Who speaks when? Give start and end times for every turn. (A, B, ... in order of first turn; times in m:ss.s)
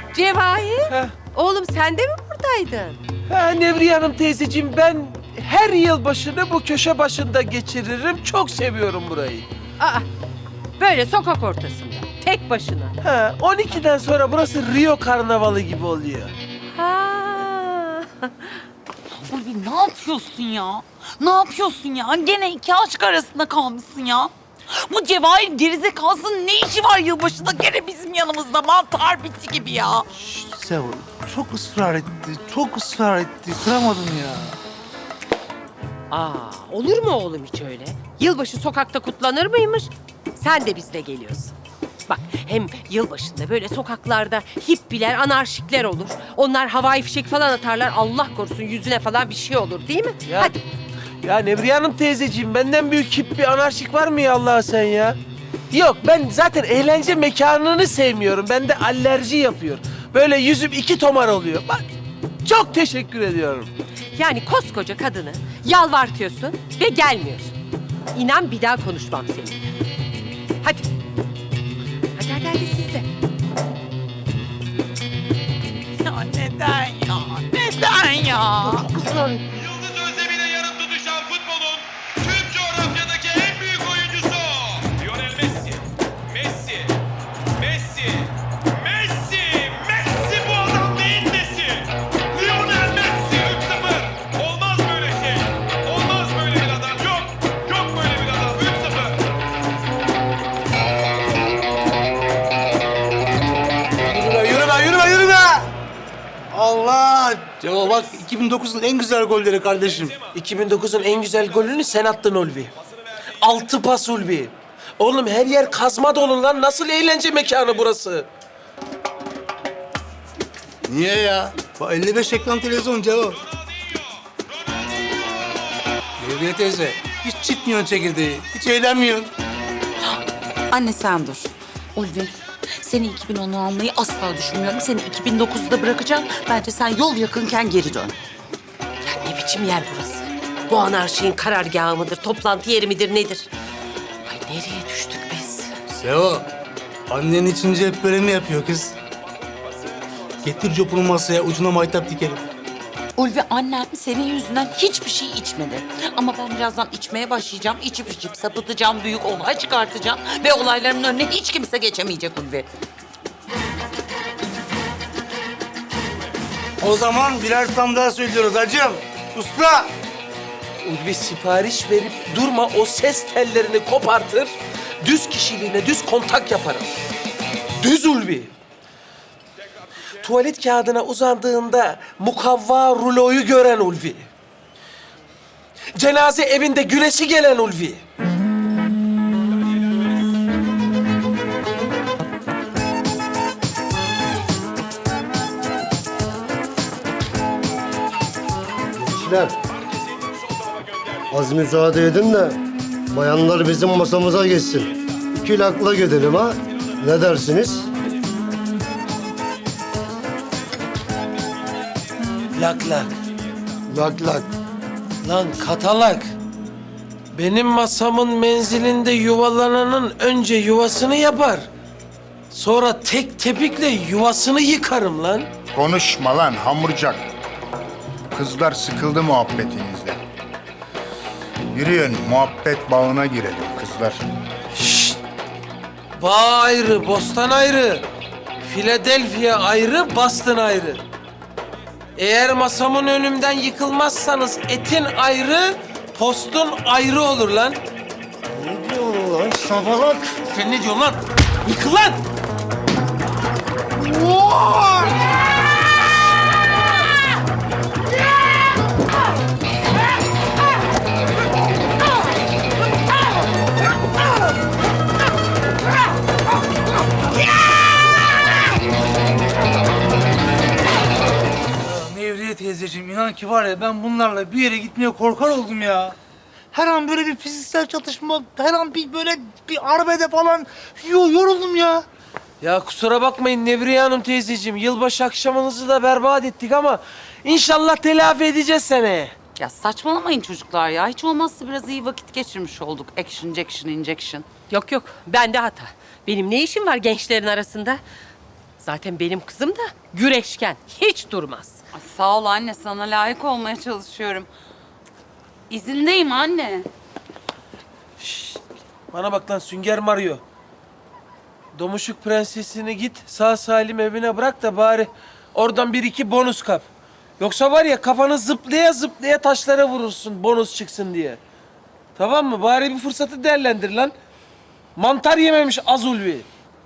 0:00.1-0:03.0 A
0:03.3-0:09.5 B
0:09.8-0:10.0 A
0:10.8-0:13.0 A
0:13.0-0:16.3 B
0:16.8-0:18.5 A
0:19.3-0:24.3 C
0:24.8-0:30.0 C
0:30.2-0:34.6 D
0:36.1-0:41.5 A
0:42.1-0:50.6 A
0:50.2-0:50.5 B
0:51.2-0:55.2 B
0:55.7-1:01.9 B
1:02.4-1:03.7 B
1:04.2-1:07.5 A
1:08.1-1:09.6 A
1:12.2-1:13.1 A
1:16.0-1:18.9 C
1:44.2-1:45.6 D
1:46.5-1:50.1 D
1:50.3-1:52.7 B
1:53.4-1:58.3 B
2:00.9-2:03.4 D
2:06.2-2:09.3 D
2:10.7-2:12.3 C
2:12.8-2:18.1 C
2:19.2-2:23.5 A
2:24.2-2:25.7 A
2:25.9-2:26.4 D
2:27.1-2:28.9 D
2:30.4-2:32.4 D
2:33.2-2:42.7 C
2:46.8-2:49.9 D
2:50.8-2:56.9 B
2:57.8-2:58.5 B
3:00.2-3:04.3 B
3:05.9-3:08.0 B
3:19.0-3:19.6 E
3:21.3-3:27.9 E
3:32.6-3:33.1 B
3:33.9-3:34.5 E
3:35.2-3:36.3 B
3:37.3-3:41.7 B
3:42.5-3:45.5 B
3:45.8-3:46.9 F
3:48.3-3:50.1 F
3:51.8-3:54.2 F
3:54.8-3:55.2 B
3:56.2-3:58.1 B
3:58.6-4:01.0 B
4:02.2-4:07.8 B
4:08.5-4:10.4 E
4:10.4-4:12.2 B
4:14.1-4:15.1 E
4:31.8-4:36.2 D
4:36.7-4:42.0 D
4:42.6-4:49.3 B
4:49.6-4:54.5 C
4:54.7-4:58.0 A
4:58.8-5:01.8 A
5:01.9-5:04.5 C
5:05.7-5:06.9 C
5:08.2-5:08.6 B
5:09.1-5:10.4 B
5:11.8-5:16.9 B
5:17.4-5:21.4 B
5:22.2-5:24.1 B
5:25.0-5:26.4 B